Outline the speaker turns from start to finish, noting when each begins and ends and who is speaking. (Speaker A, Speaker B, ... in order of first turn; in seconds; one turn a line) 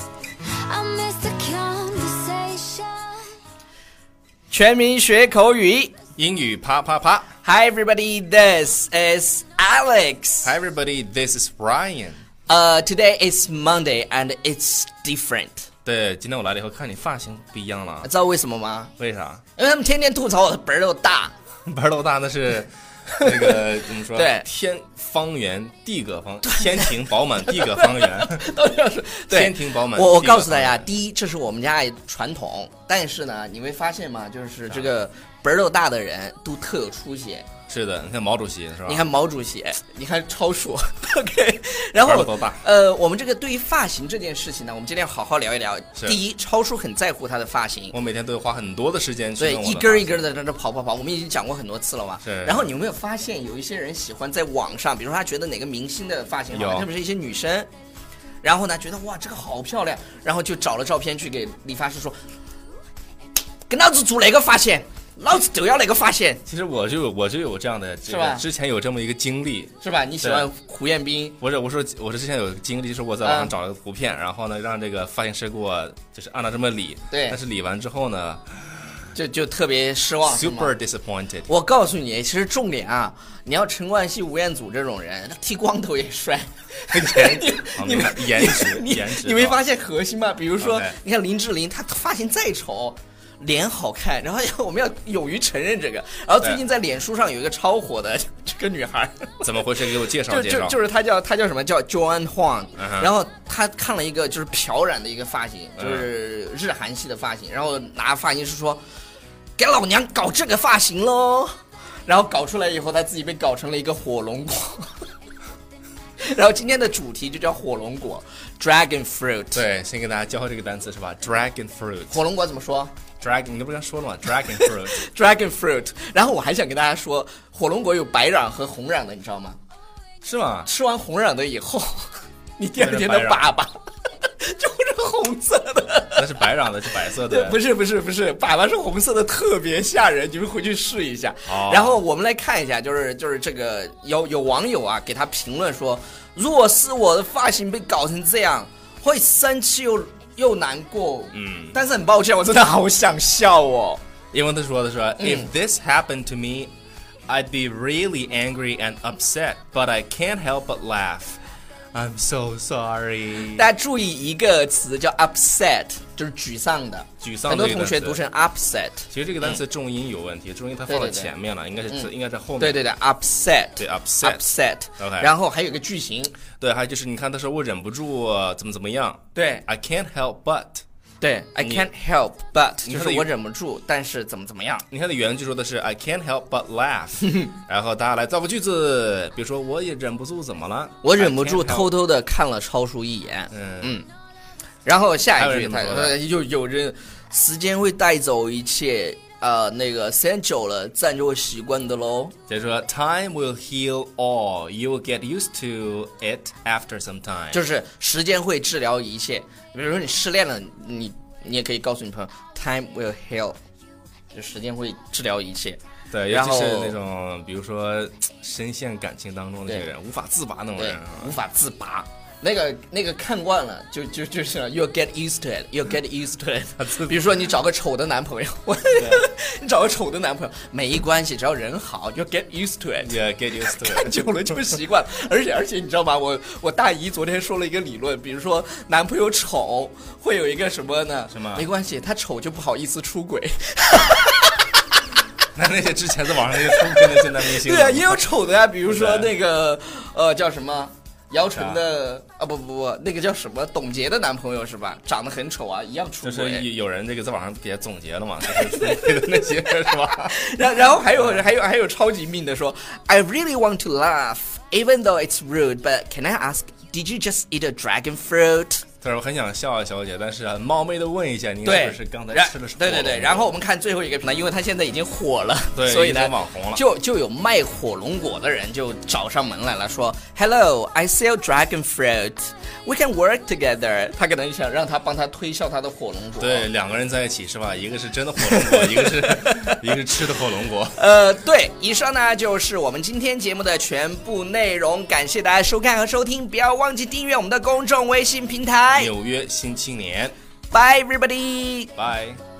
Speaker A: 0.4-3.4
Speaker B: 4.5-5.9
Speaker C: 6.2-7.3
Speaker B: 7.4-10.5
Speaker C: 10.4-12.2
Speaker B: 12.5-15.7
Speaker C: 15.8-18.1
Speaker B: 18.0-18.9
Speaker C: 19.0-19.4
Speaker B: 19.6-21.3
Speaker C: 21.6-28.5
Speaker B: 23.2-23.6
Speaker B: 24.1-24.4
Speaker B: 27.5-37.5
Speaker C: 29.3-30.9
Speaker C: 37.7-39.1
Speaker B: 38.9-47.9
Speaker C: 42.0-42.6
Speaker C: 47.9-50.2
Speaker B: 49.4-57.7
Speaker C: 52.2-52.7
Speaker C: 56.5-56.9
Speaker B: 58.4-62.2
Speaker B: 63.7-66.4
Speaker C: 66.5-70.5
Speaker B: 68.0-68.4
Speaker B: 69.8-71.4
Speaker C: 71.4-78.4
Speaker B: 73.2-73.5
Speaker B: 77.1-77.4
Speaker B: 79.1-80.7
Speaker C: 80.3-81.5
Speaker B: 81.5-99.4
Speaker C: 86.9-89.6
Speaker C: 90.6-91.0
Speaker C: 99.4-100.8
Speaker B: 100.2-108.8
Speaker C: 102.8-103.1
Speaker C: 105.8-106.1
Speaker B: 109.6-114.9
Speaker B: 116.2-119.6
Speaker C: 119.5-122.2
Speaker B: 122.1-122.9
Speaker C: 123.2-125.0
Speaker B: 124.6-129.6
Speaker C: 130.2-130.7
Speaker B: 130.7-136.5
Speaker C: 132.8-133.5
Speaker C: 136.2-137.6
Speaker B: 137.1-154.0
Speaker C: 141.5-142.0
Speaker C: 151.3-151.8
Speaker C: 154.3-156.7
Speaker B: 155.2-155.5
Speaker C: 157.3-161.4
Speaker C: 161.9-163.7
Speaker B: 163.5-169.6
Speaker C: 167.2-168.2
Speaker C: 169.1-172.8
Speaker B: 170.9-171.3
Speaker B: 172.6-176.3
Speaker C: 173.8-174.4
Speaker C: 175.0-175.3
Speaker C: 176.6-180.8
Speaker B: 179.3-179.6
Speaker B: 181.2-184.9
Speaker C: 181.6-181.9
Speaker C: 182.8-183.3
Speaker C: 184.9-191.9
Speaker B: 191.0-194.1
Speaker C: 193.5-193.9
Speaker B: 194.8-202.3
Speaker C: 195.3-196.2
Speaker C: 202.5-207.6
Speaker B: 207.5-213.6
Speaker B: 214.3-216.9
Speaker C: 216.1-221.3
Speaker B: 220.8-244.7
Speaker C: 226.8-227.2
Speaker C: 228.9-229.2
Speaker C: 233.0-234.6
Speaker C: 241.3-241.7
Speaker C: 245.5-248.2
Speaker B: 246.6-256.7
Speaker C: 248.8-249.3
Speaker C: 251.5-251.8
Speaker C: 256.2-260.4
Speaker B: 258.5-268.9
Speaker C: 261.1-261.4
Speaker C: 269.0-273.5
Speaker B: 271.6-286.7
Speaker C: 275.7-276.8
Speaker C: 286.4-291.0
Speaker B: 288.4-289.8
Speaker B: 290.9-299.1
Speaker C: 298.9-300.3
Speaker B: 300.7-301.9
Speaker C: 301.9-302.4